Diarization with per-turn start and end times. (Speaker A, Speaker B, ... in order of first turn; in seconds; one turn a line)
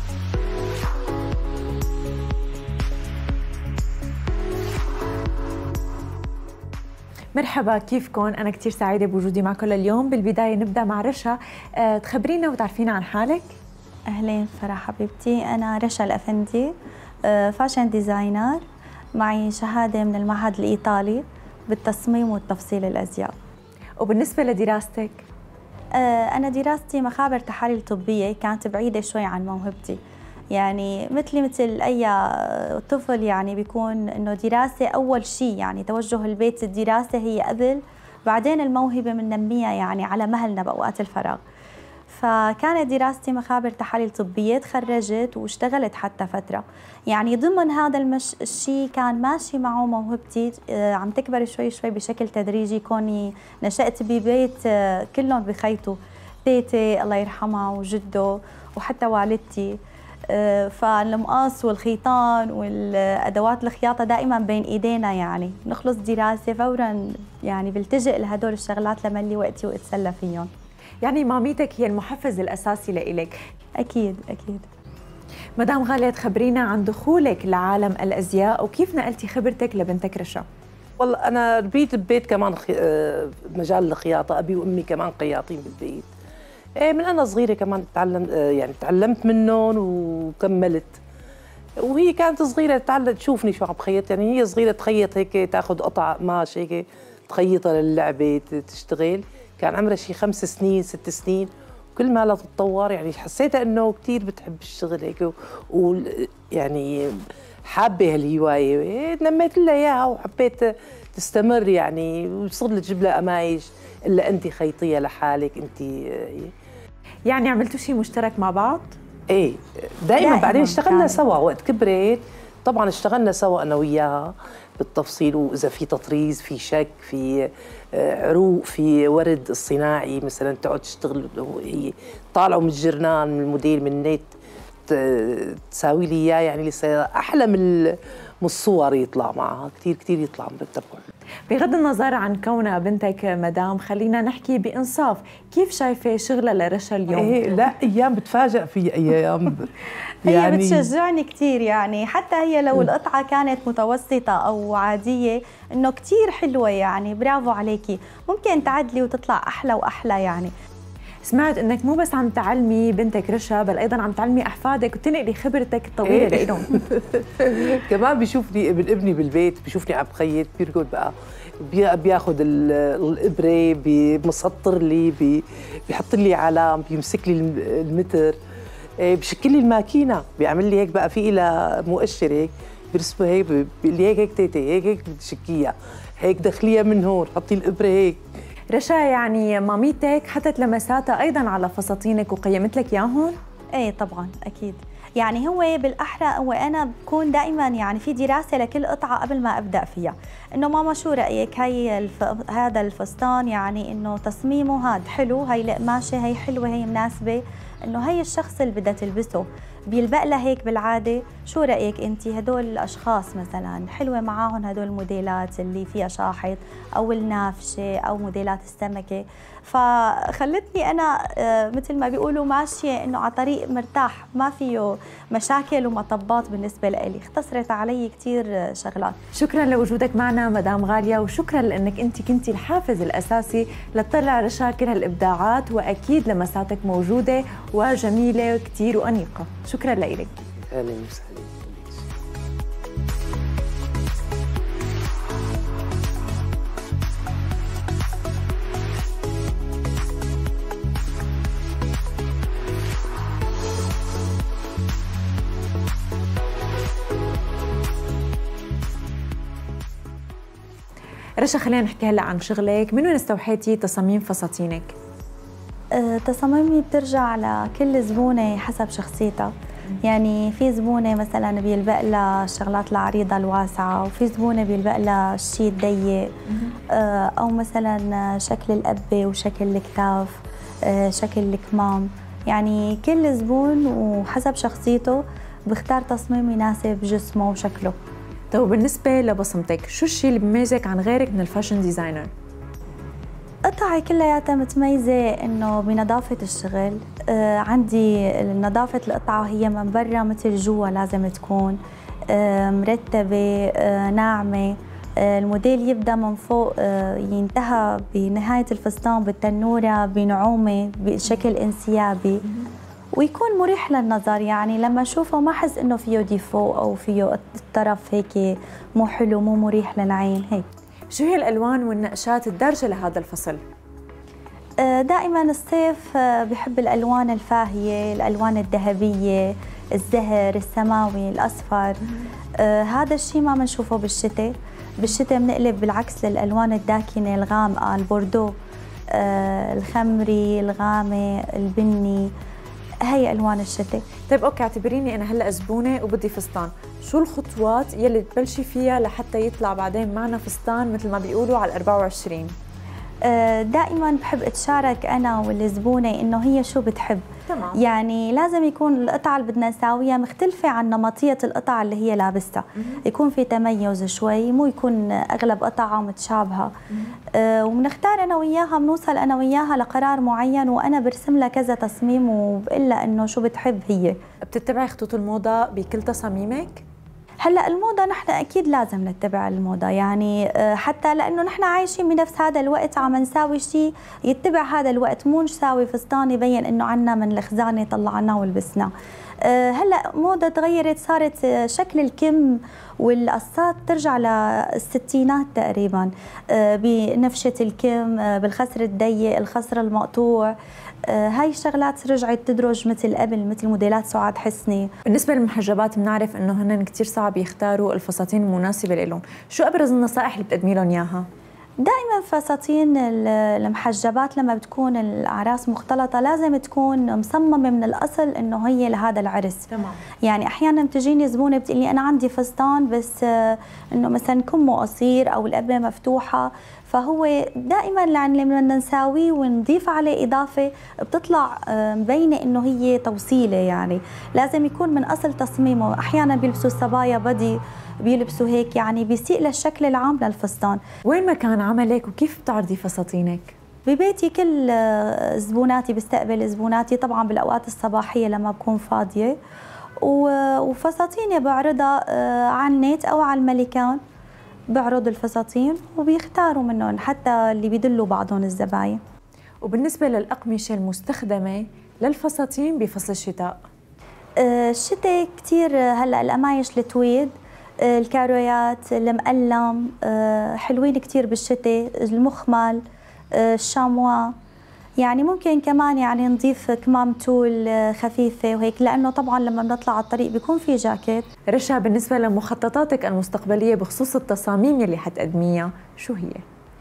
Speaker A: 7.3-13.5
Speaker B: 14.1-16.7
Speaker B: 17.2-18.6
Speaker B: 19.1-23.3
Speaker A: 24.0-25.2
Speaker B: 25.9-30.0
Speaker B: 30.5-41.4
Speaker B: 42.1-70.5
Speaker A: 71.0-73.3
Speaker B: 73.8-74.7
Speaker A: 75.6-80.4
Speaker C: 81.0-86.1
Speaker C: 86.8-91.0
Speaker C: 91.8-116.5
Speaker A: 117.3-119.0
Speaker C: 119.3-134.3
Speaker B: 120.2-121.2
Speaker C: 134.9-141.0
Speaker A: 141.5-147.4
Speaker C: 147.1-150.9
Speaker B: 150.2-160.5
Speaker A: 161.2-166.7
Speaker C: 166.1-178.4
Speaker C: 179.0-188.2
Speaker A: 188.7-193.3
Speaker B: 193.8-229.2
Speaker A: 229.3-240.3
Speaker C: 240.7-242.1
Speaker A: 261.4-264.9
Speaker B: 265.9-269.5
Speaker B: 270.0-276.3
Speaker A: 276.5-276.7
Speaker B: 276.9-288.0
Speaker A: 288.5-292.3
Speaker B: 293.7-312.4
Speaker B: 313.1-320.6
Speaker A: 321.1-323.6
Speaker B: 324.8-332.0
Speaker B: 332.6-338.5
Speaker B: 339.1-342.3
Speaker B: 343.1-344.1
Speaker A: 344.3-352.5
Speaker B: 353.2-357.2
Speaker A: 357.5-357.8
Speaker B: 357.8-366.7
Speaker B: 367.3-374.2
Speaker A: 374.5-376.8
Speaker B: 377.4-400.5
Speaker B: 401.1-404.9
Speaker A: 405.1-411.2
Speaker B: 411.8-419.7
Speaker A: 419.7-420.0
Speaker B: 420.2-440.8
Speaker A: 441.1-443.5
Speaker B: 443.9-449.4
Speaker B: 450.0-454.0
Speaker B: 454.7-459.0
Speaker A: 459.6-463.6
Speaker B: 464.4-472.8
Speaker B: 473.3-474.3
Speaker B: 475.0-481.3
Speaker A: 481.5-486.4